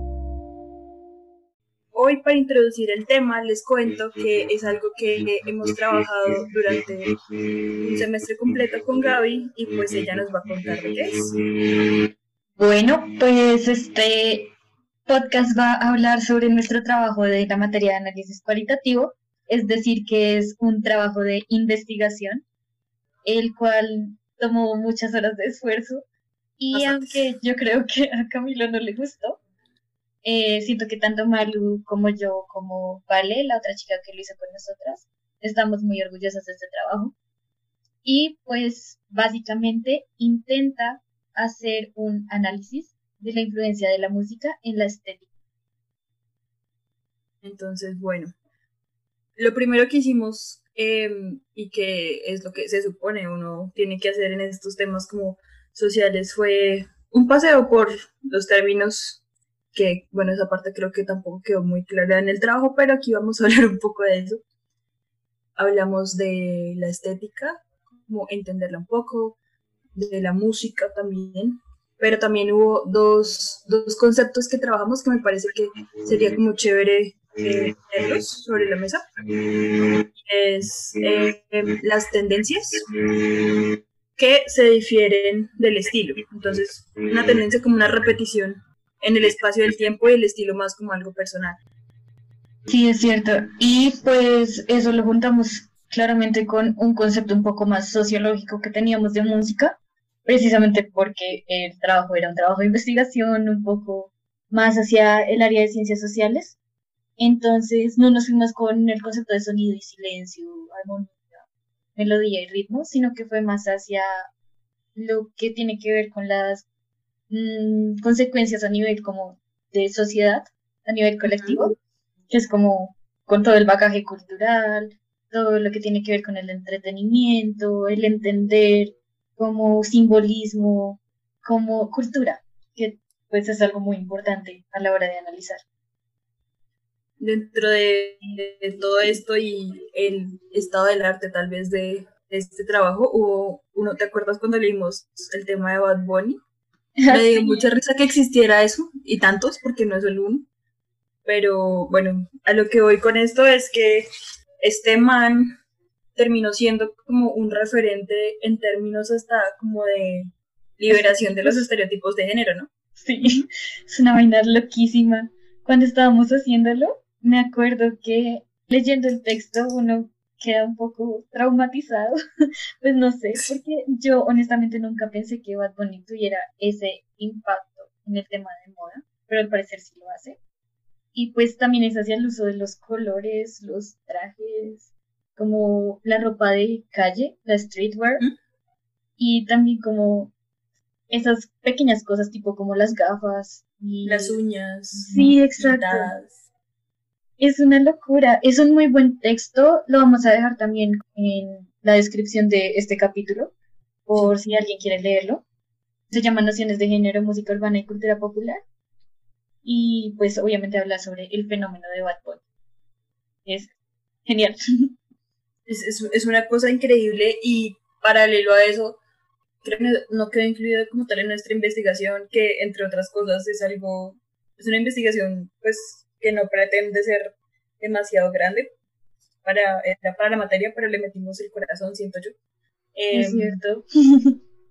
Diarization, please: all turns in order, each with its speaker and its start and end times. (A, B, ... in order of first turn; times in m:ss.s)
0:01.9-0:07.1 A
0:07.8-0:11.3 A
0:12.6-0:14.5 B
0:15.1-0:22.4 B
0:23.2-0:26.0 B
0:26.6-0:29.4 B
0:26.7-0:27.2 A
0:30.2-0:37.1 B
0:38.0-0:45.2 B
0:47.4-0:48.3 A
0:49.4-0:59.2 A
0:59.7-1:04.4 A
1:05.6-1:09.4 A
1:09.9-1:19.0 A
1:20.2-1:22.8 A
1:24.2-1:31.6 A
1:32.7-1:46.6 B
1:47.2-1:51.4 B
1:52.0-1:54.3 B
1:54.9-1:56.6 B
1:57.3-2:01.7 B
2:01.2-2:01.7 A
2:02.3-2:15.6 B
2:17.2-2:26.4 A
2:27.0-2:27.7 B
2:27.1-2:30.5 A
2:31.2-2:34.1 A
2:34.6-2:35.6 A
2:36.2-2:42.7 A
2:40.9-2:41.6 B
2:43.0-2:52.2 B
2:52.8-3:00.4 B
3:01.1-3:08.2 B
3:09.2-3:10.3 B
3:11.1-3:14.4 B
3:14.0-3:16.4 A
3:14.9-3:16.1 B
3:17.4-3:23.5 B
3:24.1-3:25.4 B
3:26.1-3:28.6 B
3:29.6-3:32.4 B
3:33.4-3:33.7 B
3:34.2-3:34.9 B
3:35.7-3:39.0 A
3:39.6-3:48.7 A
3:49.4-3:52.3 A
3:52.9-3:53.6 A
3:53.1-3:54.4 B